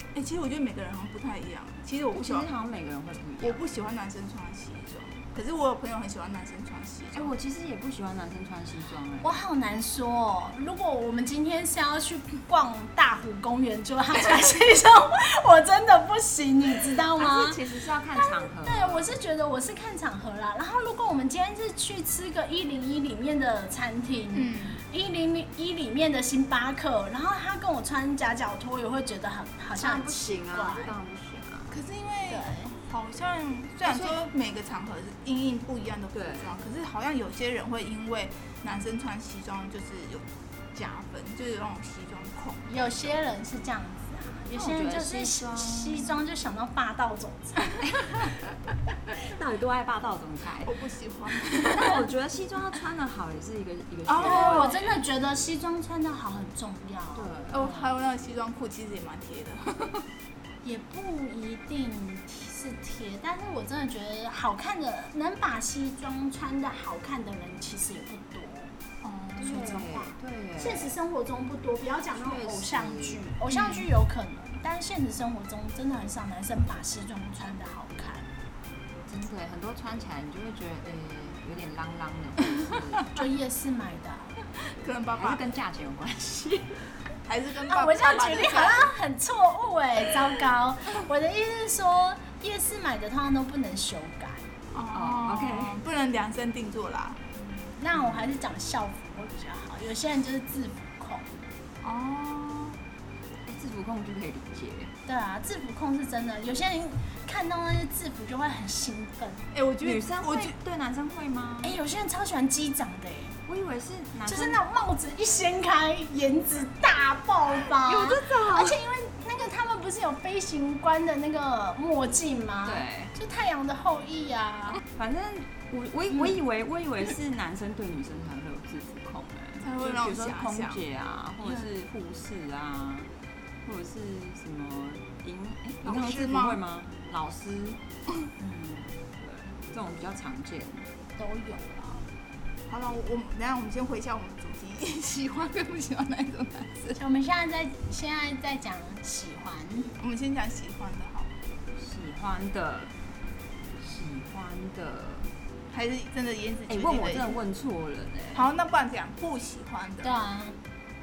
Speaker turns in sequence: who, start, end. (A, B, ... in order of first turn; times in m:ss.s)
0:00.1-0:02.5 A
0:02.1-0:03.6 B
0:03.4-0:07.3 A
0:07.1-0:09.4 B
0:09.2-0:31.0 C
0:17.2-0:19.1 B
0:24.3-0:24.8 A
0:29.8-0:31.7 B
0:31.7-0:42.7 A
0:32.3-0:32.7 C
0:33.8-0:34.2 B
0:36.1-0:36.5 B
0:42.7-0:47.8 C
0:44.5-0:46.2 B
0:49.2-0:50.7 B
0:50.6-0:51.9 A
0:51.6-0:54.9 B
0:54.1-0:54.8 A
0:54.1-0:57.9 C
0:57.2-0:57.7 B
0:57.5-1:00.0 A
1:00.6-1:08.7 C
1:09.0-1:09.4 A
1:09.4-1:10.9 B
1:09.4-1:18.3 C
1:12.2-1:13.2 B
1:13.5-1:13.8 A
1:19.1-1:23.2 B
1:23.1-1:24.4 C
1:24.7-1:25.5 A
1:25.1-1:26.9 B
1:27.3-1:28.9 A
1:27.7-1:34.5 C
1:34.7-1:37.2 A
1:34.9-1:35.8 B
1:37.4-1:41.4 C
1:37.9-1:38.4 B
1:41.8-1:42.8 A
1:43.4-1:44.9 B
1:45.1-1:49.5 C
1:49.5-1:50.5 A
1:49.8-1:51.8 B
1:51.6-1:53.4 C
1:53.5-1:54.6 B
1:54.2-2:04.8 C
1:57.7-1:58.8 B
2:02.6-2:03.1 B
2:04.8-2:13.1 B
2:09.6-2:10.8 A
2:13.6-2:17.8 B
2:15.8-2:16.6 A
2:18.4-2:19.0 C
2:19.2-2:20.9 B
2:21.2-2:22.1 C
2:22.7-2:27.0 A
2:27.0-2:29.9 C
2:30.0-2:31.3 A
2:31.8-2:32.9 B
2:33.8-2:35.3 B
2:35.7-2:37.4 A
2:36.7-2:38.5 B
2:38.3-2:40.1 A
2:40.0-2:40.6 C